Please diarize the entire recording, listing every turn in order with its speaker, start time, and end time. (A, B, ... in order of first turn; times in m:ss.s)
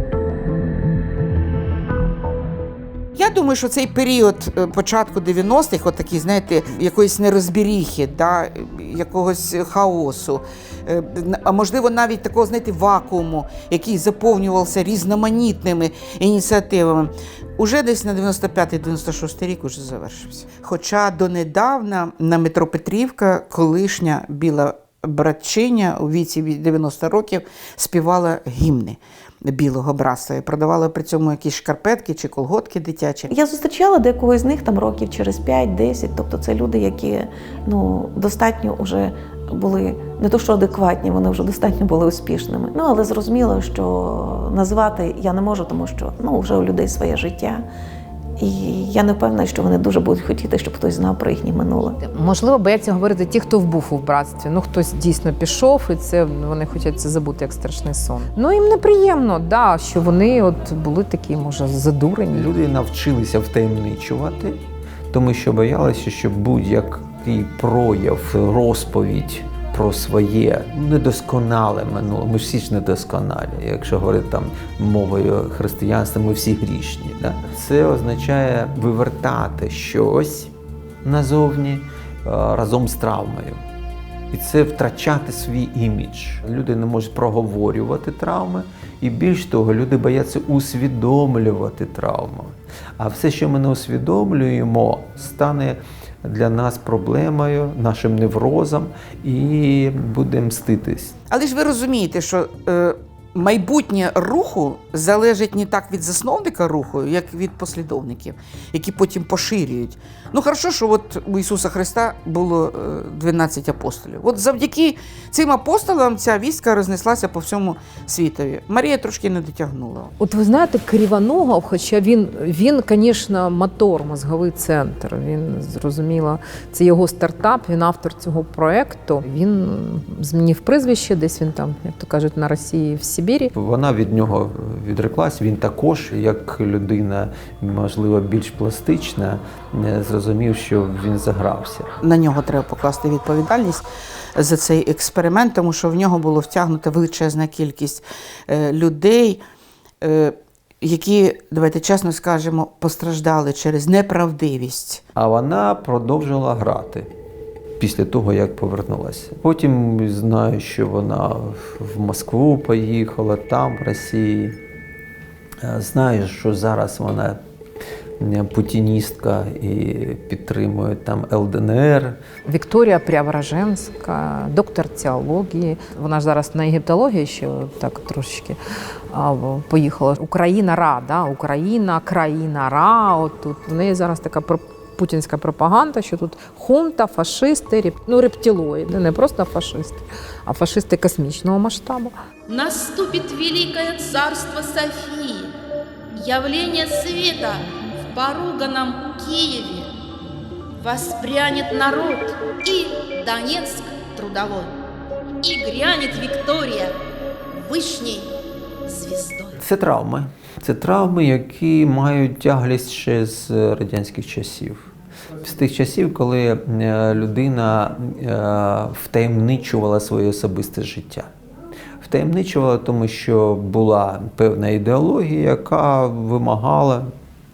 0:03.2-0:33.3 A
0:33.3-0:47.7 B
0:48.4-0:52.0 B
0:52.0-1:02.5 C
1:02.3-1:20.5 D
1:21.0-1:23.6 D
1:24.3-1:41.2 D
1:41.3-2:00.1 A
2:00.2-2:13.5 C
2:13.5-2:21.9 D
2:22.0-2:29.4 A
2:30.0-2:35.0 A
2:35.2-2:37.1 D
2:37.8-2:44.6 D
2:45.6-2:47.4 D
2:48.2-2:52.2 D
2:52.5-2:58.6 C
2:59.1-3:12.2 C
3:12.5-3:15.6 E
3:16.2-3:19.9 E
3:20.8-3:24.7 E
3:25.4-3:27.0 E
3:27.5-3:28.3 E
3:28.8-3:29.6 E
3:29.6-3:41.3 D
3:42.0-3:47.1 D